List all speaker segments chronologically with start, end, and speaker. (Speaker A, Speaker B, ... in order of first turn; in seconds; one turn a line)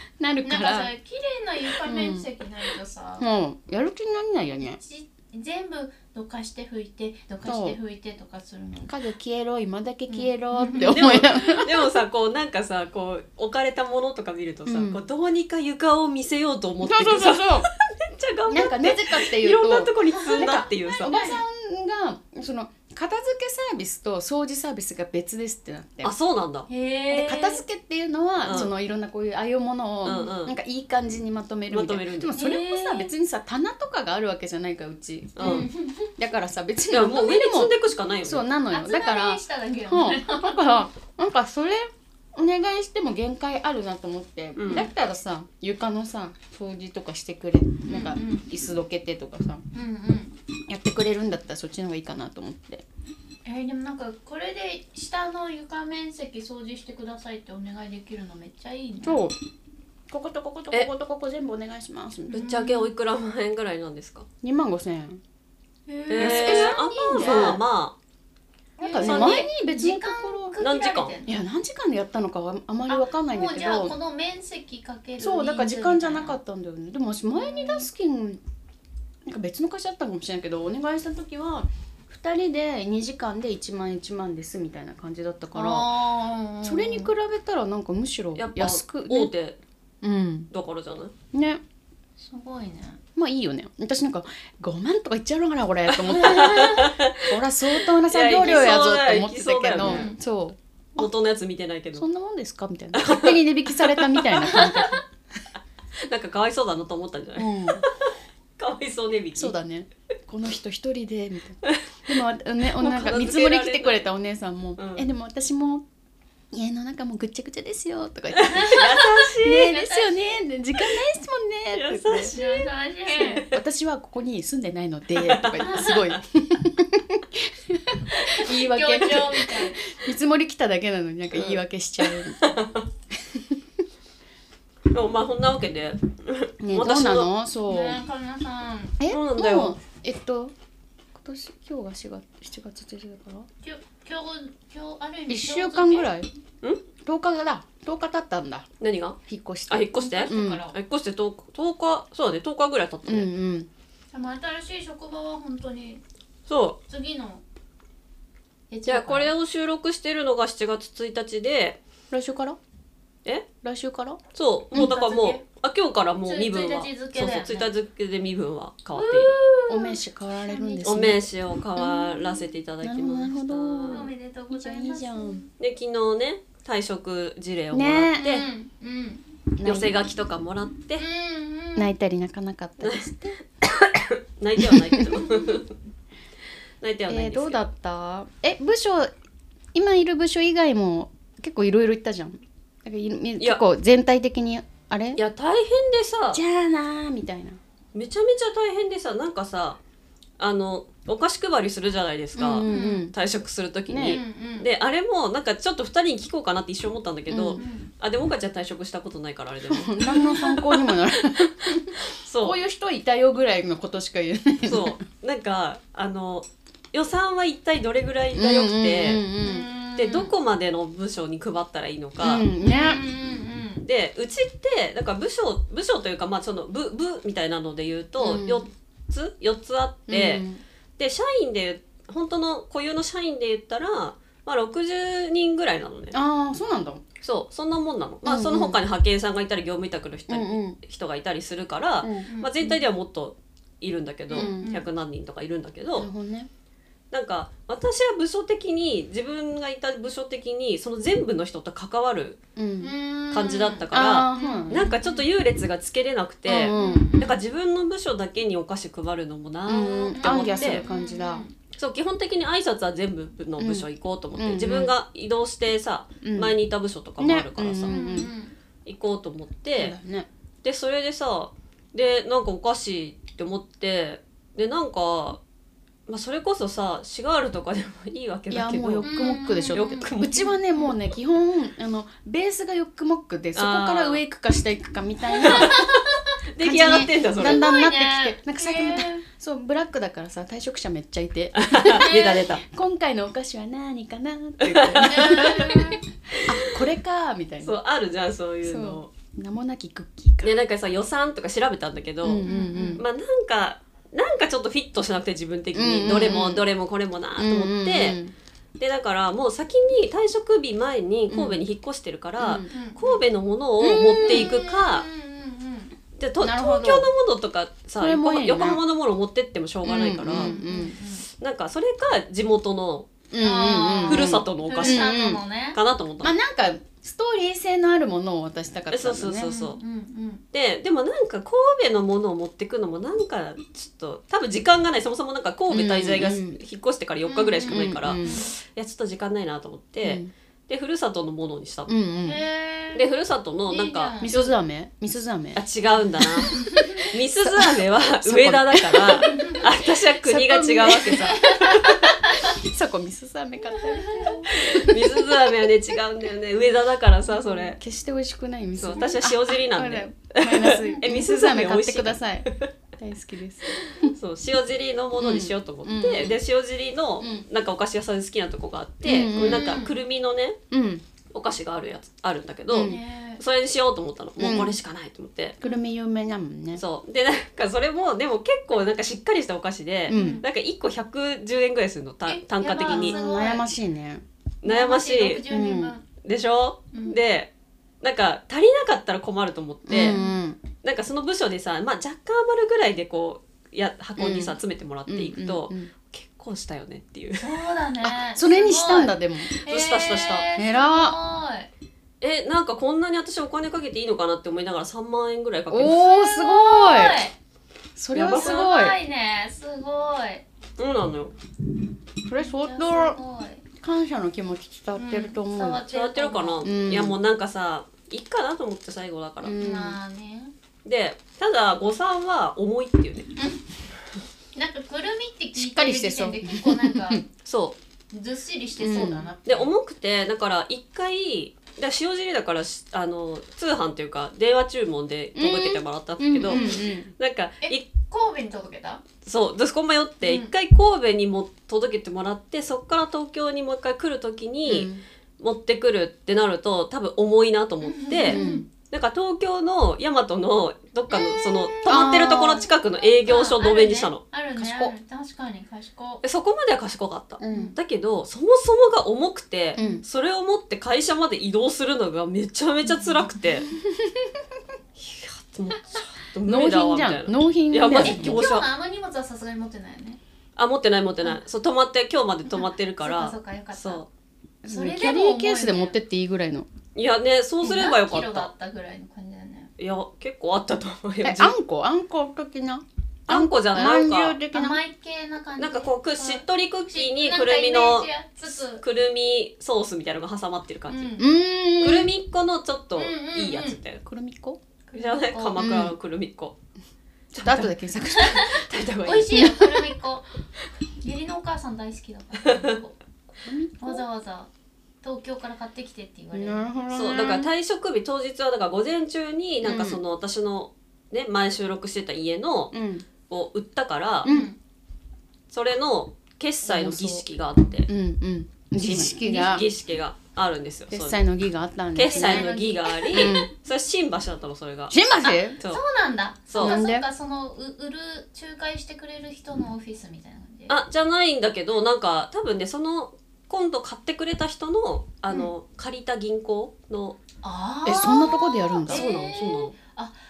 Speaker A: 0.2-0.9
Speaker B: 0.4-3.2
Speaker A: 1.8-2.3
Speaker A: 3.2-4.8
Speaker B: 4.8-8.9
Speaker A: 7.4-7.8
Speaker A: 8.9-11.7
Speaker B: 10.1-11.7
Speaker C: 11.0-21.1
Speaker A: 14.7-15.0
Speaker A: 16.8-17.7
Speaker A: 18.5-26.1
Speaker B: 20.2-21.4
Speaker C: 26.0-26.7
Speaker B: 26.7-27.6
Speaker A: 27.1-37.7
Speaker C: 28.4-28.7
Speaker B: 30.0-30.3
Speaker C: 30.0-30.5
Speaker C: 31.7-32.3
Speaker B: 32.4-33.1
Speaker C: 35.4-35.7
Speaker B: 35.4-36.1
Speaker C: 36.9-38.5
Speaker A: 38.2-49.6
Speaker B: 38.7-40.9
Speaker C: 44.5-44.9
Speaker B: 47.9-48.5
Speaker B: 49.7-50.4
Speaker A: 50.7-52.8
Speaker B: 53.4-59.2
Speaker A: 59.0-59.3
Speaker A: 60.1-62.5
Speaker B: 62.3-62.9
Speaker C: 62.4-64.2
Speaker A: 64.4-65.2
Speaker B: 65.9-67.6
Speaker C: 66.1-67.9
Speaker A: 66.2-67.6
Speaker A: 68.8-70.6
Speaker B: 68.8-71.4
Speaker C: 69.0-69.5
Speaker C: 70.6-71.1
Speaker A: 71.3-73.9
Speaker B: 72.9-76.4
Speaker A: 75.2-78.4
Speaker B: 77.3-77.9
Speaker A: 79.2-85.9
Speaker B: 85.5-87.1
Speaker A: 86.6-89.3
Speaker C: 88.3-89.6
Speaker A: 90.0-90.5
Speaker C: 90.5-91.1
Speaker A: 91.3-91.6
Speaker B: 92.2-93.0
Speaker A: 93.2-101.1
Speaker C: 96.0-100.1
Speaker B: 99.8-100.2
Speaker C: 101.0-102.1
Speaker A: 102.0-105.0
Speaker C: 102.9-104.4
Speaker B: 104.4-105.0
Speaker C: 106.1-109.5
Speaker A: 107.4-107.8
Speaker A: 109.3-115.8
Speaker C: 112.6-114.1
Speaker C: 114.8-115.0
Speaker A: 116.5-118.9
Speaker C: 118.3-119.8
Speaker B: 118.4-120.3
Speaker A: 119.4-122.3
Speaker C: 121.7-123.6
Speaker B: 122.3-123.4
Speaker A: 123.2-132.4
Speaker C: 125.2-125.8
Speaker B: 125.6-126.1
Speaker B: 128.2-129.8
Speaker C: 131.3-132.8
Speaker A: 133.3-133.6
Speaker C: 134.9-137.3
Speaker A: 136.6-138.0
Speaker B: 137.7-139.0
Speaker A: 139.0-140.5
Speaker C: 139.1-139.8
Speaker A: 141.2-143.5
Speaker B: 143.6-146.1
Speaker A: 145.3-146.3
Speaker A: 147.0-148.7
Speaker C: 148.8-153.3
Speaker A: 149.3-150.6
Speaker B: 149.9-150.8
Speaker A: 153.0-153.7
Speaker B: 154.1-156.0
Speaker C: 156.5-156.8
Speaker B: 156.9-157.4
Speaker B: 158.7-159.3
Speaker C: 158.8-161.8
Speaker A: 162.1-162.6
Speaker A: 163.6-164.2
Speaker C: 164.3-169.3
Speaker B: 164.7-165.4
Speaker B: 166.2-167.7
Speaker B: 168.9-171.0
Speaker A: 169.7-171.2
Speaker C: 170.8-174.1
Speaker B: 171.8-172.2
Speaker A: 172.8-175.4
Speaker B: 173.9-175.5
Speaker C: 175.6-178.4
Speaker A: 177.7-178.4
Speaker B: 178.2-179.2
Speaker A: 179.6-179.9
Speaker C: 179.6-181.0
Speaker B: 181.0-181.9
Speaker A: 181.8-183.4
Speaker C: 182.8-183.1
Speaker C: 183.6-185.7
Speaker A: 184.6-185.2
Speaker B: 185.2-185.6
Speaker C: 186.8-187.6
Speaker A: 187.1-189.1
Speaker A: 189.7-195.2
Speaker C: 195.2-196.4
Speaker A: 196.3-197.6
Speaker C: 197.9-199.8
Speaker C: 200.4-210.5
Speaker A: 202.3-203.1
Speaker B: 202.7-203.1
Speaker A: 203.9-204.2
Speaker B: 204.0-204.7
Speaker A: 207.3-207.6
Speaker B: 207.6-207.9
Speaker A: 209.7-215.0
Speaker B: 210.1-210.6
Speaker C: 212.1-212.6
Speaker C: 214.6-219.2
Speaker A: 218.3-219.7
Speaker B: 219.4-220.3
Speaker C: 219.9-222.4
Speaker A: 222.2-223.0
Speaker B: 222.6-223.8
Speaker C: 223.8-230.4
Speaker A: 228.2-228.7
Speaker A: 230.1-230.6
Speaker C: 231.0-236.2
Speaker A: 236.1-237.0
Speaker C: 237.2-246.1
Speaker A: 238.2-238.8
Speaker A: 240.3-240.8
Speaker A: 242.0-242.3
Speaker B: 242.2-242.8
Speaker B: 244.3-244.8
Speaker A: 244.3-244.8
Speaker A: 246.0-246.5
Speaker C: 247.1-252.4
Speaker A: 252.6-252.9
Speaker B: 252.8-253.8
Speaker C: 253.3-260.8
Speaker A: 253.9-254.9
Speaker B: 254.3-255.3
Speaker A: 256.4-257.1
Speaker B: 256.7-257.4
Speaker A: 259.7-261.4
Speaker B: 259.8-261.5
Speaker C: 261.7-267.9
Speaker A: 263.6-264.9
Speaker A: 266.2-266.6
Speaker A: 267.2-268.3
Speaker B: 267.9-268.5
Speaker C: 268.8-269.9
Speaker A: 269.8-270.3
Speaker C: 270.6-275.4
Speaker C: 276.1-279.1
Speaker A: 278.5-285.8
Speaker B: 279.0-280.1
Speaker C: 279.7-280.5
Speaker C: 283.5-284.2
Speaker B: 285.3-286.3
Speaker C: 285.4-285.8
Speaker C: 286.5-287.6
Speaker A: 286.6-297.8
Speaker B: 287.3-289.2
Speaker C: 291.5-292.6
Speaker B: 291.9-292.4
Speaker C: 294.6-296.9
Speaker B: 295.0-296.0
Speaker C: 297.6-299.1
Speaker A: 298.6-300.6
Speaker C: 300.4-308.2
Speaker A: 302.2-303.0
Speaker B: 302.4-303.0
Speaker A: 305.7-306.7
Speaker A: 307.4-308.3
Speaker C: 308.8-315.1
Speaker A: 311.3-311.6
Speaker A: 312.4-312.7
Speaker B: 312.7-313.2
Speaker A: 313.8-314.5
Speaker B: 313.8-315.9
Speaker C: 316.2-320.5
Speaker A: 316.4-317.1
Speaker A: 318.0-318.8
Speaker A: 319.9-320.9
Speaker B: 320.3-321.2
Speaker C: 321.3-323.1
Speaker A: 323.3-325.4
Speaker B: 323.4-325.8
Speaker C: 324.1-325.1
Speaker C: 325.7-326.3
Speaker A: 326.2-329.5
Speaker C: 328.9-329.8
Speaker B: 329.4-330.4
Speaker C: 330.5-341.9
Speaker A: 335.7-336.6
Speaker B: 337.2-338.5
Speaker A: 337.7-338.4
Speaker A: 340.0-340.3
Speaker A: 341.9-342.4
Speaker B: 342.2-343.1
Speaker C: 342.9-344.5
Speaker B: 343.7-344.3
Speaker A: 344.2-345.6
Speaker C: 345.5-351.5
Speaker A: 346.2-346.5
Speaker B: 346.5-347.0
Speaker A: 347.4-355.4
Speaker B: 349.3-349.6
Speaker B: 351.3-352.6
Speaker B: 353.9-354.9
Speaker C: 354.5-357.8
Speaker A: 357.3-364.1
Speaker C: 358.8-362.7
Speaker C: 363.8-370.6
Speaker A: 365.2-366.4
Speaker A: 369.0-369.8
Speaker B: 369.4-369.9
Speaker A: 370.7-371.0
Speaker C: 371.3-375.6
Speaker A: 372.7-373.0
Speaker B: 372.8-373.4
Speaker A: 374.4-374.8
Speaker A: 375.6-376.8
Speaker C: 376.8-383.2
Speaker A: 380.1-380.4
Speaker B: 380.1-380.4
Speaker B: 382.2-383.6
Speaker A: 382.8-384.2
Speaker C: 384.6-385.4
Speaker B: 384.6-386.0
Speaker A: 385.5-385.9
Speaker C: 386.2-390.1
Speaker B: 386.9-387.2
Speaker A: 389.9-390.6
Speaker B: 389.9-390.4
Speaker C: 390.8-397.5
Speaker A: 394.2-395.9
Speaker B: 397.4-401.7
Speaker A: 398.1-399.5
Speaker C: 399.6-400.4
Speaker A: 400.5-401.1
Speaker C: 402.2-406.0
Speaker A: 405.7-407.2
Speaker B: 405.8-407.3
Speaker A: 407.9-408.9
Speaker C: 408.1-408.7
Speaker B: 408.3-410.4
Speaker C: 410.8-411.3
Speaker A: 412.2-413.2
Speaker B: 412.3-413.6
Speaker A: 413.8-415.8
Speaker B: 414.9-416.7
Speaker C: 415.9-419.6
Speaker A: 416.6-417.2
Speaker A: 419.4-420.0
Speaker B: 419.6-420.5
Speaker C: 420.8-423.3
Speaker B: 424.5-427.2
Speaker A: 425.5-427.2
Speaker C: 427.4-427.8
Speaker B: 428.1-429.7
Speaker A: 428.8-429.3
Speaker C: 428.9-437.8
Speaker A: 435.4-437.1
Speaker B: 436.5-436.8
Speaker B: 437.6-439.0
Speaker C: 439.2-454.2
Speaker B: 440.2-440.5
Speaker A: 444.6-445.0
Speaker B: 447.8-448.7
Speaker A: 448.3-448.6
Speaker B: 451.1-456.2
Speaker A: 451.9-452.7
Speaker A: 454.6-454.9
Speaker C: 456.2-463.7
Speaker A: 457.4-457.7
Speaker B: 457.5-457.7
Speaker B: 459.8-460.0
Speaker A: 459.8-460.0
Speaker A: 463.7-464.4
Speaker C: 464.9-468.6
Speaker A: 466.4-468.4
Speaker B: 467.9-470.2
Speaker C: 470.6-474.1
Speaker B: 472.5-474.0
Speaker A: 474.6-476.7
Speaker B: 474.7-476.0
Speaker C: 476.9-478.5
Speaker B: 477.6-479.7
Speaker C: 479.8-481.5
Speaker A: 481.2-484.8
Speaker C: 483.3-484.4
Speaker B: 484.5-488.8
Speaker C: 485.6-491.1
Speaker B: 490.9-491.3
Speaker A: 491.2-492.1
Speaker C: 491.8-494.0
Speaker B: 492.9-493.8
Speaker A: 494.1-494.6
Speaker B: 494.9-495.6
Speaker C: 494.9-496.6
Speaker A: 495.6-495.9
Speaker A: 497.3-498.5
Speaker C: 497.3-497.7
Speaker B: 498.1-500.2
Speaker C: 498.3-499.5
Speaker A: 499.3-499.7
Speaker B: 501.0-502.9
Speaker C: 502.5-502.7
Speaker A: 503.4-504.0
Speaker B: 503.8-504.5
Speaker B: 505.0-506.7
Speaker A: 506.3-507.5
Speaker C: 506.9-512.7
Speaker A: 509.6-510.0
Speaker A: 512.7-513.0
Speaker C: 513.3-514.3
Speaker A: 514.2-514.5
Speaker B: 514.2-514.6
Speaker C: 515.5-517.9
Speaker A: 516.6-517.2
Speaker A: 517.9-519.6
Speaker C: 518.8-521.2
Speaker B: 519.2-519.5
Speaker A: 520.9-522.5
Speaker C: 521.9-524.9
Speaker B: 522.0-523.4
Speaker A: 523.1-523.5
Speaker A: 524.9-525.6
Speaker B: 525.2-530.7
Speaker C: 526.5-526.8
Speaker A: 526.6-527.0
Speaker C: 530.7-537.2
Speaker B: 537.4-540.1
Speaker A: 537.8-539.0
Speaker C: 538.9-539.7